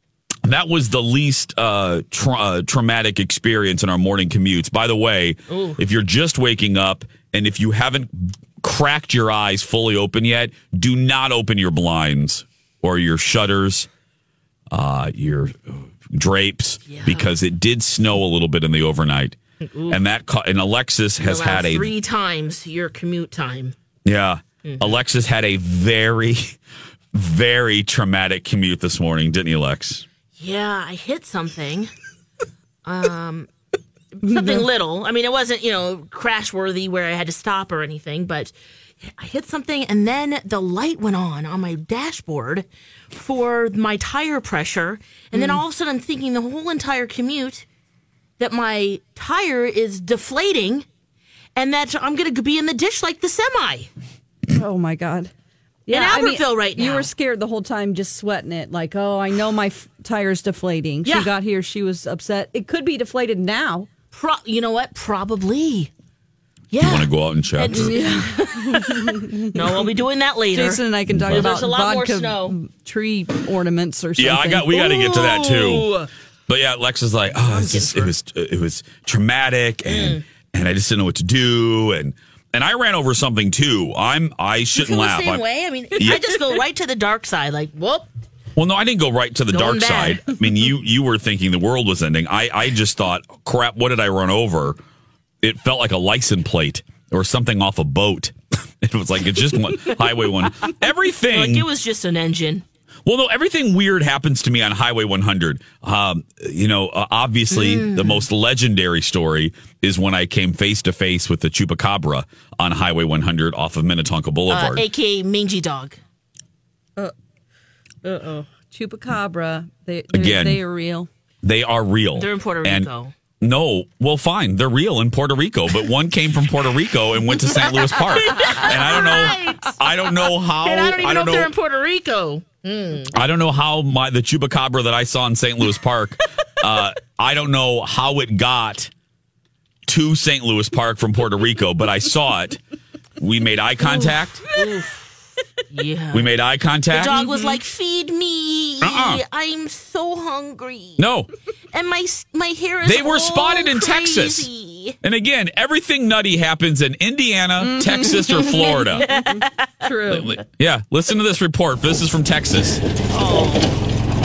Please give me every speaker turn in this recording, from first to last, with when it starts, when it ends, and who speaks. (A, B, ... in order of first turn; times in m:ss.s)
0:00.4-0:13.9 A
0:05.5-0:05.8 B
0:14.7-0:19.4 A
0:16.9-0:17.3 B
0:19.7-0:20.0 B
0:19.9-0:21.9 A
0:21.2-0:23.7 B
0:24.0-0:26.5 A
0:24.6-0:25.0 B
0:27.1-0:30.0 A
0:30.4-0:31.9 B
0:32.8-0:33.5 B
0:34.2-0:47.6 B
0:34.2-0:34.7 C
0:45.3-0:45.6 C
0:48.4-0:50.8 B
0:51.6-0:53.9 B
0:54.5-0:55.3 C
0:55.8-1:03.9 C
0:55.9-0:57.1 B
1:01.0-1:01.3 B
1:04.1-1:05.9 B
1:06.7-1:12.6 B
1:06.8-1:08.0 A
1:07.7-1:09.9 C
1:10.5-1:15.2 C
1:11.1-1:11.6 A
1:14.2-1:15.9 A
1:14.8-1:16.1 B
1:16.5-1:25.4 A
1:17.3-1:18.1 B
1:19.8-1:20.2 B
1:24.8-1:28.1 B
1:28.6-1:34.8 A
1:29.5-1:30.2 B
1:35.4-1:41.7 A
1:41.3-1:42.6 B
1:43.0-1:54.8 A
1:47.5-1:48.2 B
1:54.5-1:56.0 B
1:58.0-2:01.1 C
2:00.1-2:00.6 A
2:01.4-2:02.9 A
2:02.2-2:03.1 B
2:03.4-2:11.5 A
2:07.6-2:13.1 B
2:13.1-2:18.9 A
2:19.9-2:22.6 A
2:23.2-2:24.4 A
2:23.8-2:24.1 C
2:24.5-2:25.2 B
2:25.7-2:26.3 B
2:26.1-2:27.2 A
2:26.9-2:31.0 B
2:27.2-2:27.6 C
2:28.8-2:29.2 A
2:31.0-2:31.3 A
2:31.7-2:35.0 B
2:32.8-2:34.5 A
2:35.0-2:39.1 A
2:37.6-2:40.4 C
2:38.3-2:39.9 B
2:40.1-2:42.8 A
2:43.1-2:43.8 B